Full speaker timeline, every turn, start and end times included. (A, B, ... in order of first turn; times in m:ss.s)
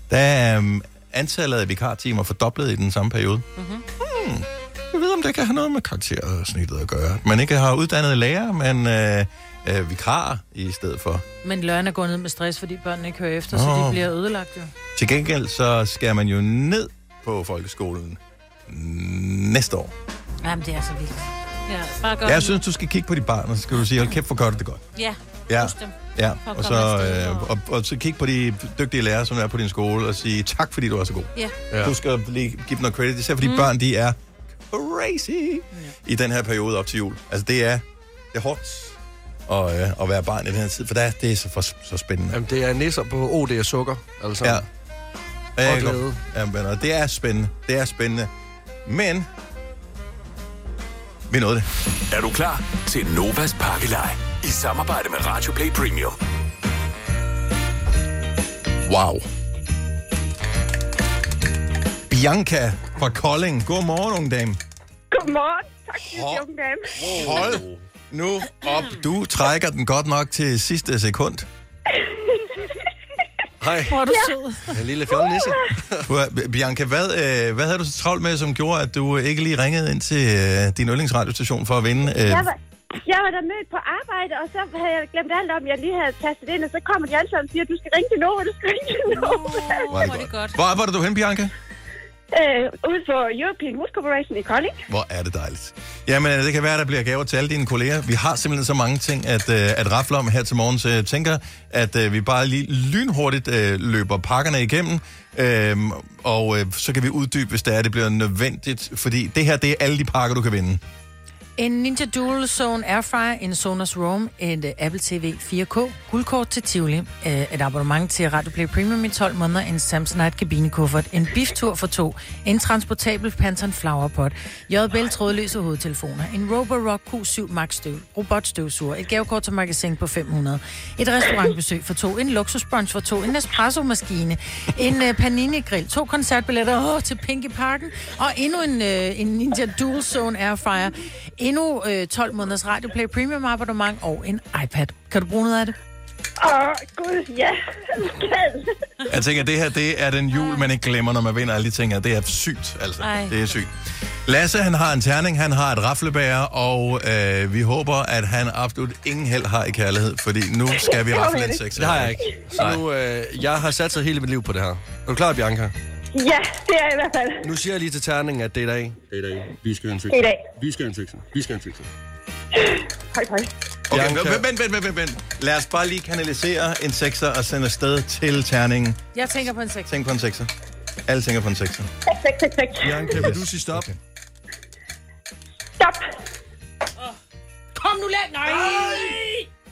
0:00.1-0:03.4 A
0:03.6-0:03.8 B
0:04.0-0:11.2 A
0:11.4-0:14.7 C
0:13.5-0:14.0 A
0:15.0-0:19.9 A
0:20.5-0:21.1 B
0:21.7-0:22.6 B
0:22.2-0:24.8 A
0:24.9-0:27.5 B
0:25.5-0:34.2 A
0:31.7-0:32.0 D
0:33.4-0:33.7 B
0:34.7-0:39.0 A
0:39.5-0:42.4 A
0:42.3-0:44.6 D
0:45.6-0:48.3 A
0:45.6-0:46.2 D
0:48.8-0:49.3 A
0:51.3-0:51.7 A
0:52.1-0:56.2 E
0:58.8-0:59.2 A
1:02.1-1:04.6 A
1:05.1-1:07.2 F
1:06.0-1:06.4 A
1:07.0-1:11.5 A
1:07.0-1:07.7 D
1:13.6-1:14.0 D
1:13.9-1:14.8 C
1:14.1-1:14.3 F
1:14.7-1:16.1 D
1:16.0-1:22.5 A
1:22.2-1:29.8 F
1:29.1-1:30.6 B
1:29.9-1:31.5 A
1:32.3-1:34.8 F
1:34.9-1:50.8 A
1:51.6-2:25.7 C
2:26.4-2:28.7 F
2:29.1-2:33.7 A
2:33.0-2:33.5 B
2:34.2-2:42.8 A
2:40.7-2:41.7 F
2:41.7-2:45.7 D
2:46.1-2:47.5 F
2:47.4-2:51.9 D
2:50.1-2:50.4 F
2:53.1-2:53.5 F
2:53.9-2:59.0 A
2:53.9-2:54.4 D
2:59.1-2:59.9 C
2:59.9-3:00.5 A
3:01.0-3:01.9 A
3:02.1-3:03.1 F
3:02.8-3:03.9 D
3:03.1-3:04.0 A
3:05.8-3:06.1 F
3:07.8-3:09.4 C